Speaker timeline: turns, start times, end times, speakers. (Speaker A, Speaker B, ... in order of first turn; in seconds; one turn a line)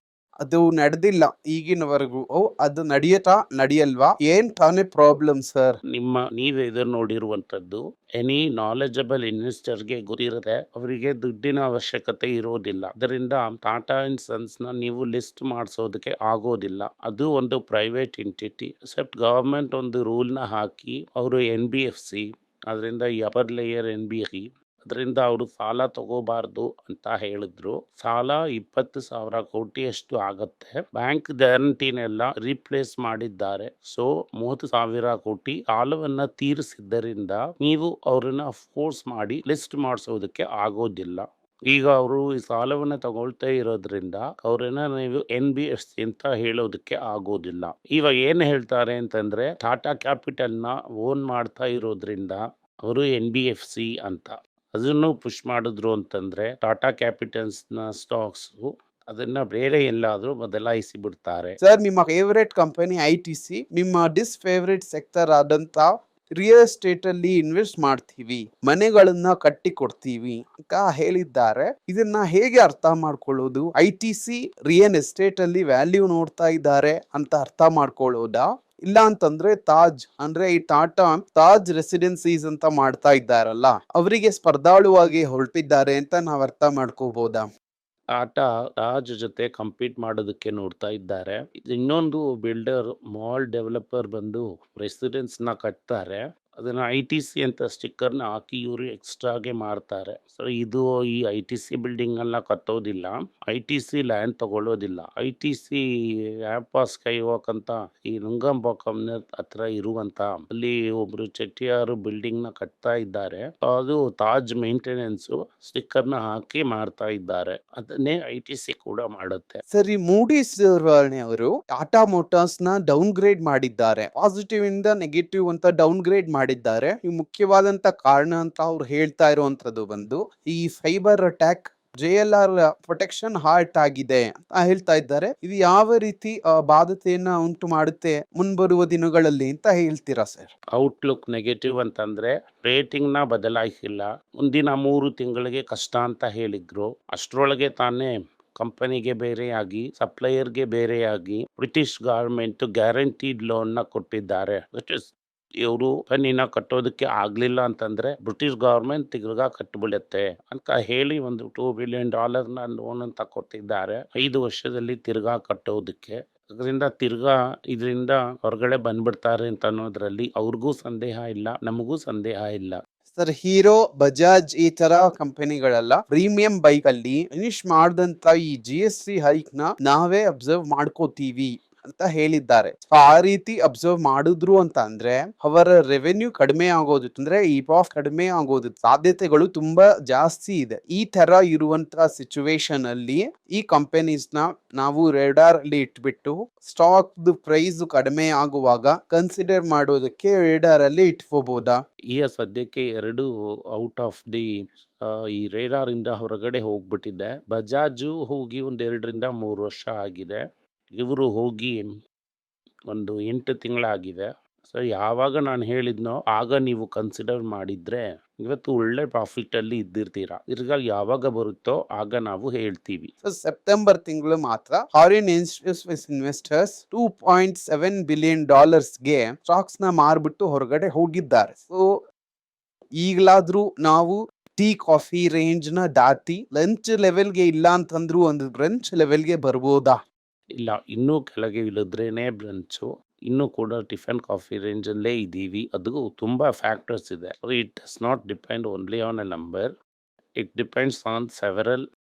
Speaker A: 0.4-5.8
Speaker B: 5.9-61.6
Speaker A: 61.6-87.5
Speaker B: 88.2-105.8
Speaker B: 106.5-119.6
Speaker A: 119.7-140.5
Speaker B: 140.8-155.1
Speaker B: 155.6-172.8
Speaker A: 173.2-201.8
Speaker B: 202.1-204.5
Speaker B: 205.1-210.4
Speaker B: 210.9-211.9
Speaker B: 212.9-223.1
Speaker A: 223.2-231.8
Speaker A: 233.0-240.0
Speaker B: 240.6-249.7
Speaker B: 250.4-251.8